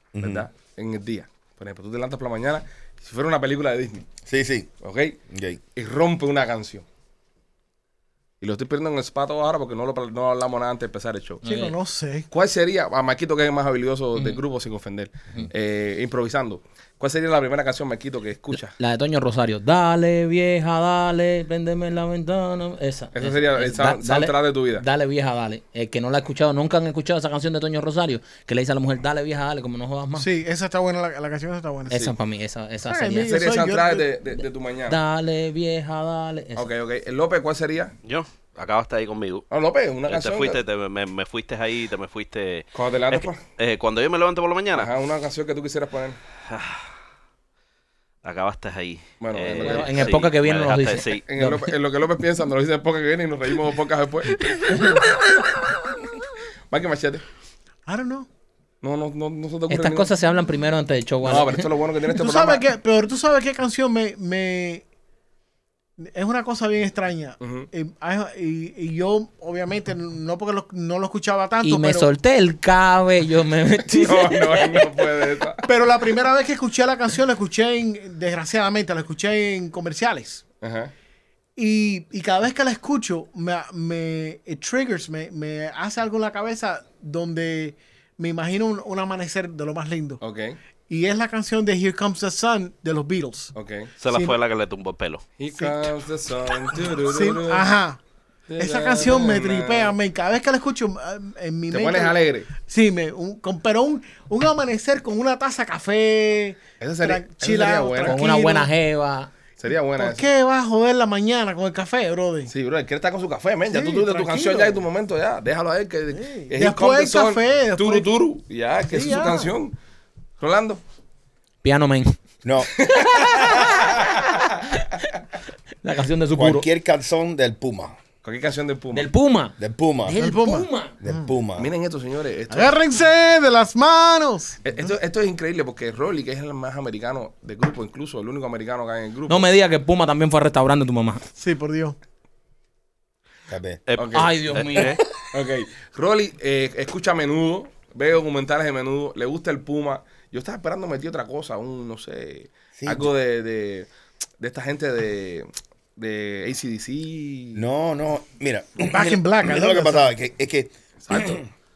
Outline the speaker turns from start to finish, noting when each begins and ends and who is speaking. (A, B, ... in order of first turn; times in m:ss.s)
0:00.1-0:00.5 A
0:00.2-0:04.0 B
0:04.2-0:04.7 A
0:04.8-0:05.2 B
0:05.3-0:05.6 A
0:05.8-0:06.8 B
0:08.4-0:11.4 B
0:11.4-0:11.7 C
0:11.4-0:12.3 D
0:12.3-0:18.8 B
0:18.5-0:30.3 C
0:23.1-0:24.8 B
0:30.2-0:32.0 D
0:31.9-0:33.4 C
0:32.8-0:34.0 D
0:33.2-0:35.0 B
0:34.9-0:36.7 C
0:36.5-0:37.9 B
0:38.0-0:39.4 E
0:39.5-0:40.6 B
0:40.1-0:44.9 E
0:42.7-0:43.4 B
0:44.7-0:46.2 B
0:46.4-0:46.8 E
0:48.2-0:51.2 E
0:49.2-0:50.2 B
0:49.5-0:51.7 C
0:51.3-0:54.4 B
0:54.3-0:55.2 E
0:54.7-0:55.0 C
0:56.7-0:57.2 B
0:57.9-0:58.3 D
0:58.8-1:00.1 B
0:59.7-1:01.7 C
1:01.2-1:02.6 B
1:02.1-1:04.8 D
1:06.0-1:12.1 D
1:07.4-1:07.7 B
1:11.6-1:14.8 C
1:13.9-1:15.7 B
1:15.6-1:20.4 D
1:20.6-1:20.9 B
1:21.6-1:30.2 D
1:30.2-1:30.6 B
1:30.9-1:33.5 D
1:33.5-1:33.9 B
1:34.0-1:35.2 E
1:34.1-1:34.4 D
1:35.4-1:37.7 B
1:35.6-1:35.9 D
1:37.0-1:38.0 D
1:38.5-1:39.9 B
1:38.6-1:48.7 D
1:41.7-1:42.5 B
1:46.8-1:48.2 B
1:48.0-1:49.3 C
1:49.6-1:50.3 B
1:50.0-1:52.5 D
1:52.5-1:59.7 B
1:53.7-1:54.8 D
1:56.1-1:58.1 D
1:58.9-1:59.6 D
2:00.4-2:00.8 B
2:01.6-2:02.1 C
2:02.4-2:02.7 A
2:02.8-2:04.0 C
2:02.8-2:04.3 B
2:04.7-2:05.0 C
2:05.8-2:06.6 C
2:06.4-2:08.0 A
2:08.2-2:09.1 B
2:08.9-2:10.9 C
2:09.6-2:10.2 A
2:10.2-2:11.3 D
2:11.0-2:11.7 A
2:11.6-2:12.7 B
2:12.5-2:14.9 D
2:14.6-2:19.5 B
2:19.3-2:21.2 C
2:21.4-2:22.0 D
2:23.5-2:23.8 A
2:23.9-2:25.0 E
2:24.0-2:24.3 B
2:24.1-2:25.0 C
2:25.3-2:33.9 B
2:32.8-2:33.1 A
2:34.4-2:37.6 B
2:37.5-2:41.4 A
2:38.8-2:40.1 D
2:41.0-2:41.5 B